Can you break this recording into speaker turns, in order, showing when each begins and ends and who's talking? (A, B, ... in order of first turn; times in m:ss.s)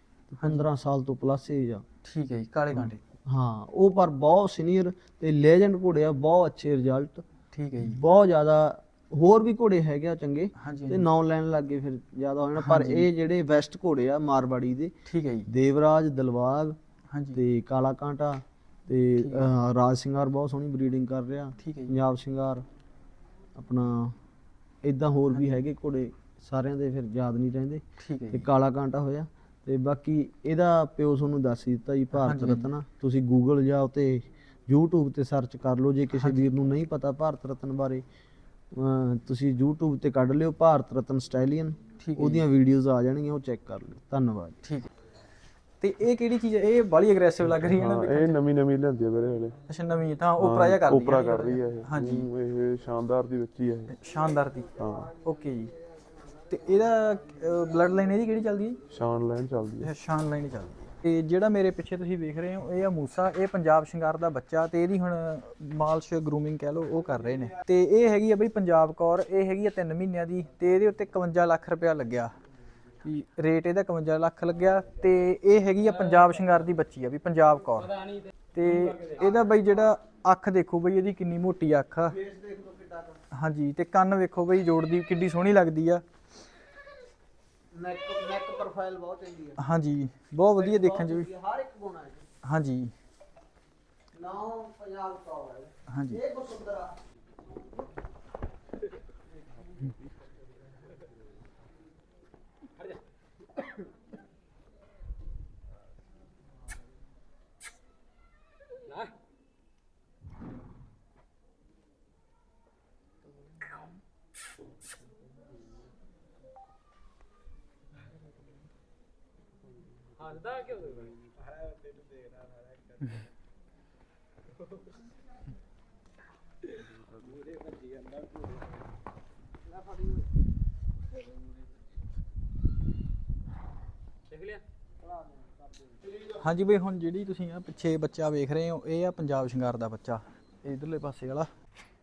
0:00.3-0:01.8 A
0:02.0-0:03.0 B
0:02.7-0:07.2 A
0:07.5-0:08.0 B
0:07.8-0:14.9 A
0:10.6-0:11.1 B
0:12.6-0:13.1 B
0:15.1-0:15.5 B
0:15.5-0:16.8 A
0:17.1-0:17.4 B
0:17.3-0:22.6 A
0:19.2-0:19.5 B
0:21.6-0:21.9 B
0:23.6-0:24.2 A
0:24.8-0:38.0 A
0:25.3-0:25.6 B
0:28.0-0:28.5 B
0:32.1-0:32.7 B
0:36.2-0:36.5 B
0:38.7-0:44.6 A
0:42.0-0:42.4 B
0:44.6-0:44.9 B
0:45.8-0:48.4 B
0:47.6-0:49.5 C
0:49.7-0:52.3 B
0:50.4-0:53.9 C
0:53.9-0:54.7 B
0:54.8-0:55.1 C
0:55.2-0:55.7 B
0:56.5-0:58.8 B
0:58.9-0:59.9 C
0:59.8-1:12.3 B
1:13.0-1:22.2 B
1:22.2-1:23.2 A
1:23.3-1:26.0 B
1:27.7-1:29.6 A
1:29.6-1:31.3 B
1:30.6-1:32.3 A
1:32.4-1:32.9 B
1:34.1-1:37.0 A
1:35.9-1:36.2 B
2:16.3-2:21.5 B